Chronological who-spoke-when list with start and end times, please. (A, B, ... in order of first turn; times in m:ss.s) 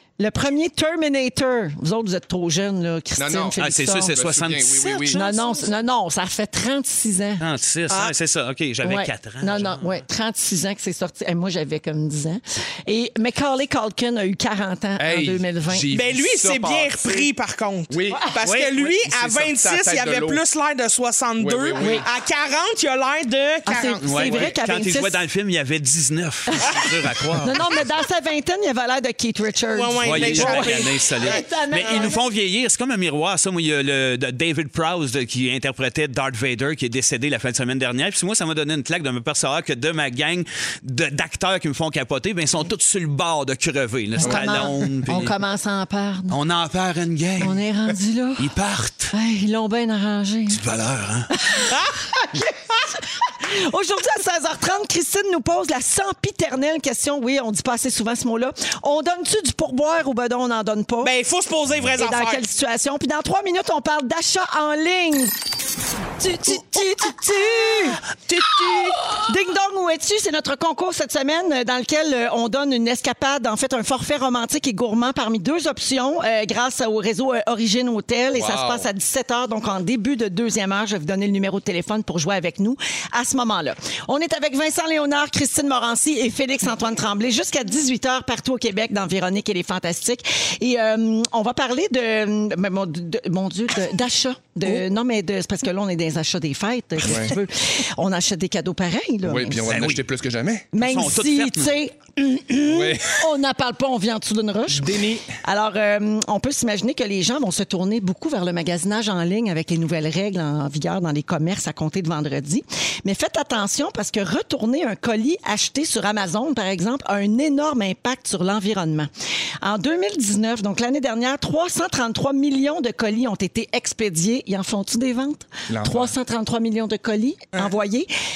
0:00.2-0:04.1 A
0:03.2-0:05.2 B
0:03.6-0:05.3 C
0:05.1-0:07.4 A
0:07.4-0:09.9 C
0:08.8-0:15.9 A
0:15.0-0:17.3 B
0:15.9-0:24.5 D
0:17.9-0:20.4 B
0:18.4-0:18.7 C
0:21.4-0:22.1 B
0:21.8-0:22.0 A
0:23.6-0:25.2 A
0:24.0-0:27.5 C
0:26.5-0:26.8 A
0:27.4-0:32.2 A
0:29.7-0:30.9 D
0:30.0-0:45.4 C
0:30.2-0:31.2 B
0:31.8-0:32.1 D
0:44.2-0:46.4 A
0:46.3-0:47.6 C
0:47.4-0:48.5 A
0:48.4-0:49.1 C
0:49.1-0:50.6 A
0:50.5-0:51.3 C
0:51.3-1:01.1 A
1:01.0-1:02.4 D
1:02.0-1:05.3 A
1:06.2-1:39.6 A
1:18.3-1:18.9 B
1:37.0-1:37.4 B
1:39.2-1:40.7 B
1:39.6-1:40.0 C
1:40.7-1:59.1 A
1:40.8-1:41.7 C
1:42.6-1:43.2 B
1:44.7-1:45.3 B
1:59.6-2:08.1 A
2:05.7-2:06.1 B